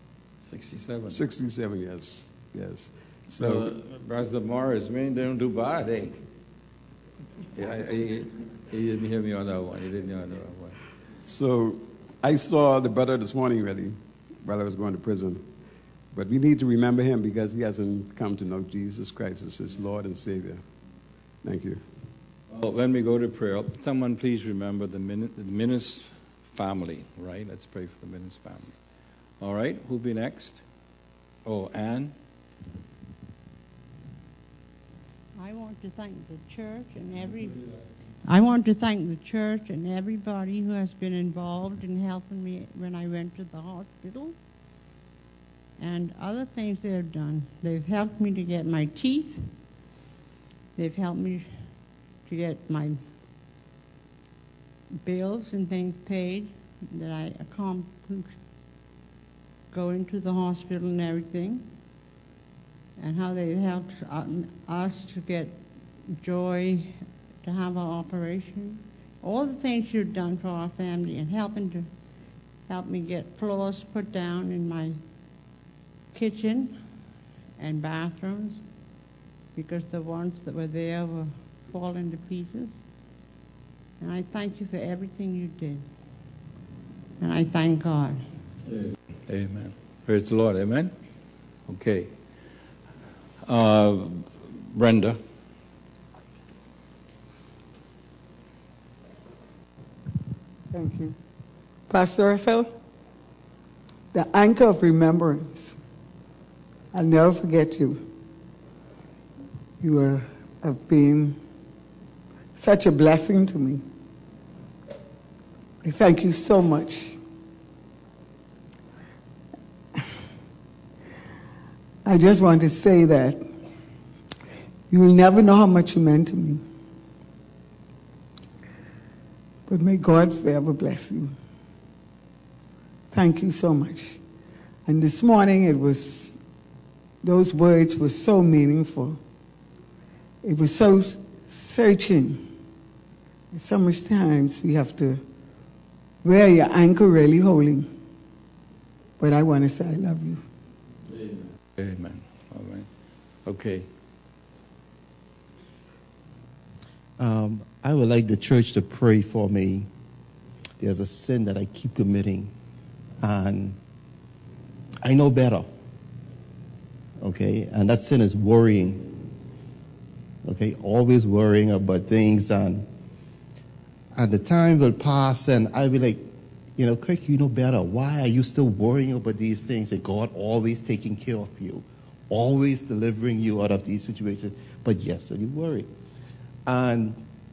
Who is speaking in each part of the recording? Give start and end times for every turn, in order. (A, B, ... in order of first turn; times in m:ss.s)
0:00.4-0:01.2 A
0:01.1-0:03.7 B
0:03.4-0:06.2 A
0:07.5-0:10.8 A
0:11.2-0:15.5 B
0:16.1-0:20.6 B
0:21.4-0:21.8 B
0:22.5-0:28.8 A
0:29.4-0:30.6 A
0:31.5-0:32.2 A
0:35.4-0:37.7 C
0:38.2-0:44.4 C
0:45.8-0:49.5 C
0:50.8-0:51.7 C
0:52.2-0:53.0 C
0:55.0-0:58.4 C
0:59.7-1:01.7 C
1:03.0-1:11.9 C
1:12.7-1:15.0 C
1:16.1-1:16.8 C
1:17.6-1:18.6 C
1:19.6-1:22.8 C
1:24.0-1:25.8 C
1:27.2-1:28.2 C
1:28.7-1:30.9 A
1:31.7-1:32.2 A
1:33.4-1:35.2 A
1:40.7-1:41.2 D
1:41.9-1:42.7 D
1:44.1-1:45.8 D
1:46.9-1:48.0 D
1:49.8-1:51.4 D
1:52.6-1:53.8 D
1:55.8-1:57.2 D
2:02.0-2:03.4 D
2:04.9-2:06.6 D
2:09.7-2:11.3 D
2:13.1-2:14.2 D
2:14.9-2:16.4 D
2:17.2-2:19.2 D
2:20.4-2:22.5 D
2:23.5-2:25.2 D
2:26.2-2:27.9 D
2:29.2-2:30.4 D
2:31.8-2:32.9 A
2:33.4-2:33.9 A
2:37.2-2:39.9 E
2:40.8-2:42.5 E
2:43.2-2:43.8 E
2:45.0-2:45.7 E
2:47.2-2:49.2 E
2:50.4-2:52.9 E
2:54.2-3:05.9 E
3:06.7-3:07.2 E